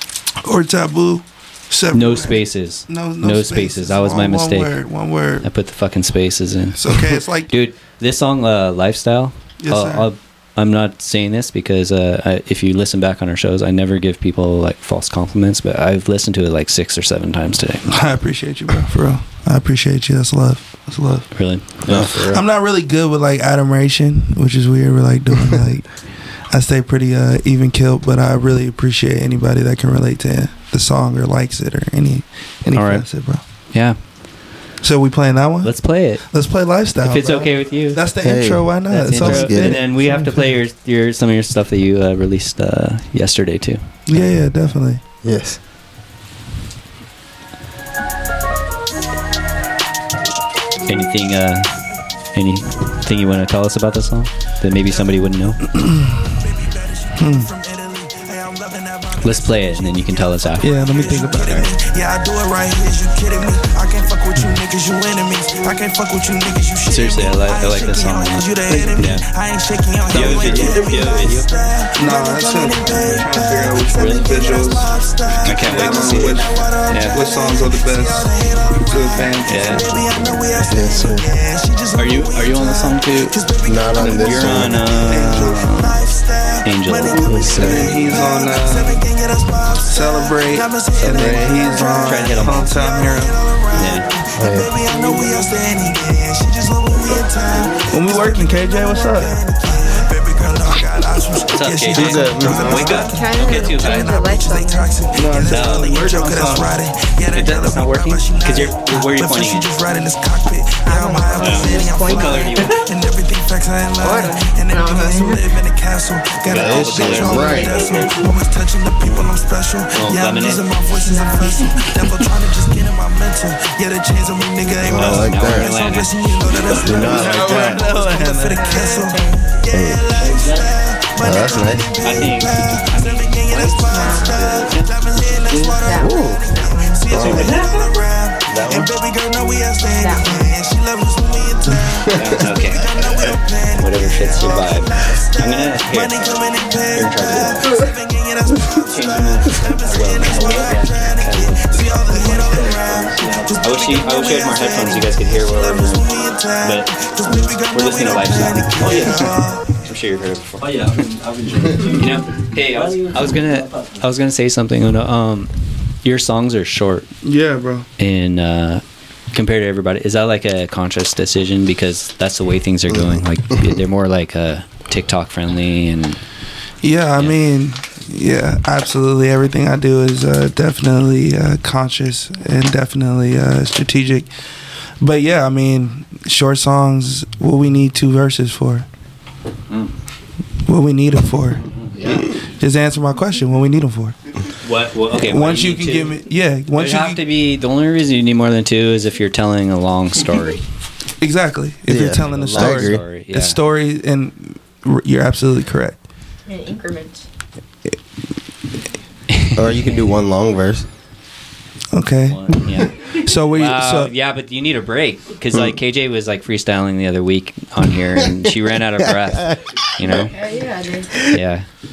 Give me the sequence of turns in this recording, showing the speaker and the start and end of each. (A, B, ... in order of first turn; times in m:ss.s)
0:00.4-0:05.5 A
0:01.9-0:04.8 B
0:05.4-0:17.9 B
0:06.8-0:07.5 A
0:09.6-0:10.1 A
0:17.8-0:21.3 A
0:21.3-0:22.2 B
0:21.9-0:22.4 C
0:22.1-0:33.4 A
0:32.7-0:33.1 B
0:33.7-0:34.0 B
0:34.8-0:40.5 A
0:35.6-0:36.2 B
0:37.0-0:38.0 B
0:38.2-0:39.8 C
0:38.9-0:44.4 B
0:44.1-0:45.0 A
0:45.2-0:45.6 C
0:50.8-0:51.8 B
0:52.3-0:55.7 B
0:55.7-0:56.3 A
0:56.6-2:39.8 D
0:57.1-0:57.5 A
0:59.2-1:01.7 B
1:00.6-1:01.7 A
1:06.9-1:09.2 B
1:08.6-1:09.1 A
1:10.1-1:11.5 B
1:10.1-1:11.0 A
1:11.9-1:14.9 A
1:13.9-1:14.3 B
1:15.4-1:17.2 B
1:15.4-1:20.2 A
1:19.4-1:19.9 B
1:20.7-1:21.2 C
1:21.9-1:23.4 B
1:23.6-1:24.8 C
1:23.9-1:26.0 B
1:25.0-1:25.6 A
1:26.6-1:27.8 B
1:27.2-1:28.2 C
1:27.5-1:29.0 A
1:29.8-1:33.4 A
1:31.0-1:31.7 C
1:32.0-1:32.7 B
1:33.7-1:34.1 B
1:34.4-1:34.7 C
1:34.9-1:35.5 E
1:37.9-1:39.4 A
1:41.4-1:44.2 B
1:41.9-1:43.0 C
1:42.0-1:42.9 A
1:42.8-1:45.1 E
1:45.1-1:46.8 A
1:45.4-1:46.5 B
1:47.3-1:49.7 B
1:50.8-1:52.8 E
1:51.4-1:52.8 B
1:54.0-1:55.5 E
1:56.4-1:58.2 B
1:56.5-1:57.8 C
1:59.9-2:00.7 B
2:01.0-2:02.3 E
2:04.8-2:05.7 C
2:04.9-2:07.4 B
2:06.7-2:07.9 C
2:06.7-2:08.7 A
2:08.3-2:09.5 E
2:09.7-2:10.2 C
2:11.2-2:11.9 C
2:12.0-2:15.0 B
2:13.6-2:14.6 E
2:15.4-2:17.1 E
2:16.0-2:16.4 C
2:17.1-2:17.6 C
2:17.1-2:17.6 B
2:18.5-2:18.9 B
2:19.9-2:20.6 E
2:21.8-2:22.4 C
2:22.1-2:27.8 B
2:27.6-2:27.9 E
2:28.7-2:32.4 B
2:33.6-2:41.0 B
2:40.6-2:43.9 D
2:41.8-2:45.5 B
2:46.0-2:47.1 B
2:47.2-2:47.8 A
2:48.0-2:56.2 B
2:52.9-2:53.8 C
2:56.8-3:04.3 A
3:05.0-3:08.9 A
3:10.6-3:14.2 A
3:14.6-3:16.2 B
3:15.1-3:17.2 A
3:16.7-3:20.6 B
3:21.2-3:26.0 A
3:21.9-3:23.0 C
3:22.2-3:23.6 B
3:26.5-3:27.2 E
3:29.3-3:29.6 B
3:29.5-3:30.8 C
3:31.9-3:34.1 A
3:32.3-3:40.3 B
3:39.3-3:40.2 C
3:40.1-3:41.2 E
3:41.3-3:41.6 B